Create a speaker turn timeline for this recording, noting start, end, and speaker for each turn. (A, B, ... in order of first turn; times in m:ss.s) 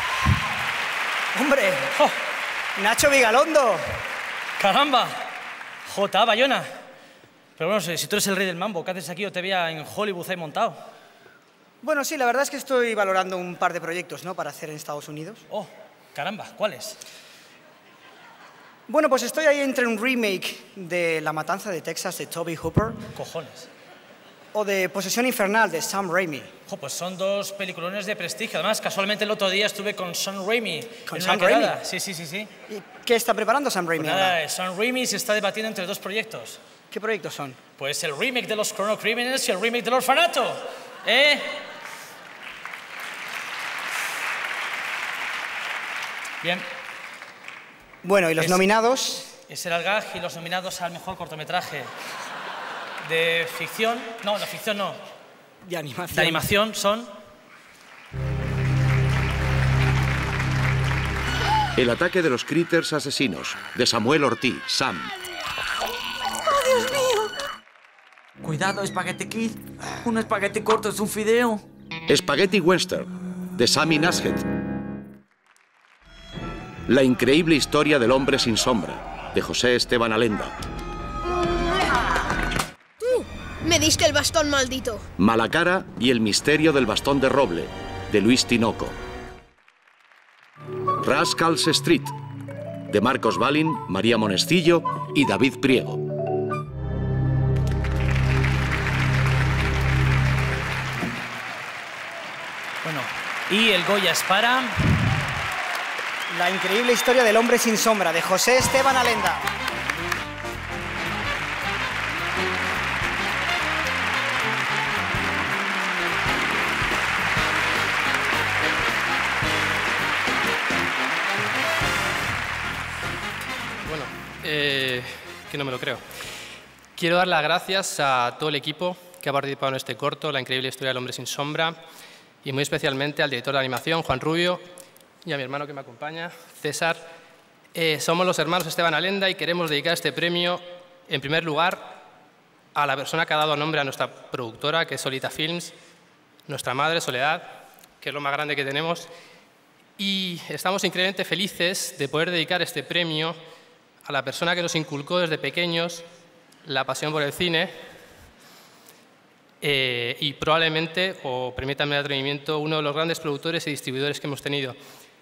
0:01.3-0:02.0 A
0:02.8-0:04.0 A
0:04.6-0:05.3 B
0:05.8-0:06.7 B
0:07.6-0:10.8 B
0:11.8-0:15.4 A
0:15.5-0:17.0 B
0:18.9-0:23.0 A
0:23.2-0:23.7 B
0:24.5-0:26.5 A
0:26.7-0:32.5 B
0:31.1-0:31.8 A
0:32.7-0:34.4 A
0:34.0-0:36.6 B
0:36.9-0:37.6 A
0:37.8-0:41.6 B
0:46.4-0:46.7 B
0:48.0-0:49.3 A
0:49.5-0:51.9 B
0:53.0-0:55.0 B
0:55.7-0:56.4 A
0:56.1-0:57.1 B
1:01.8-1:05.1 C
1:08.4-1:11.6 D
1:12.1-1:14.5 C
1:16.9-1:20.6 C
1:23.0-1:25.0 E
1:25.2-1:29.0 C
1:31.0-1:32.2 C
1:32.9-1:36.1 C
1:42.8-1:44.8 B
1:46.3-1:49.5 A
2:03.8-2:06.0 F
2:07.0-2:11.8 F
2:12.4-2:14.6 F
2:15.2-2:17.0 F
2:17.7-2:21.8 F
2:22.7-2:25.7 F
2:26.5-2:27.4 F
2:28.0-2:29.1 F
2:30.0-2:33.4 F
2:34.0-2:36.0 F
2:36.6-2:37.7 F
2:39.6-2:44.8 F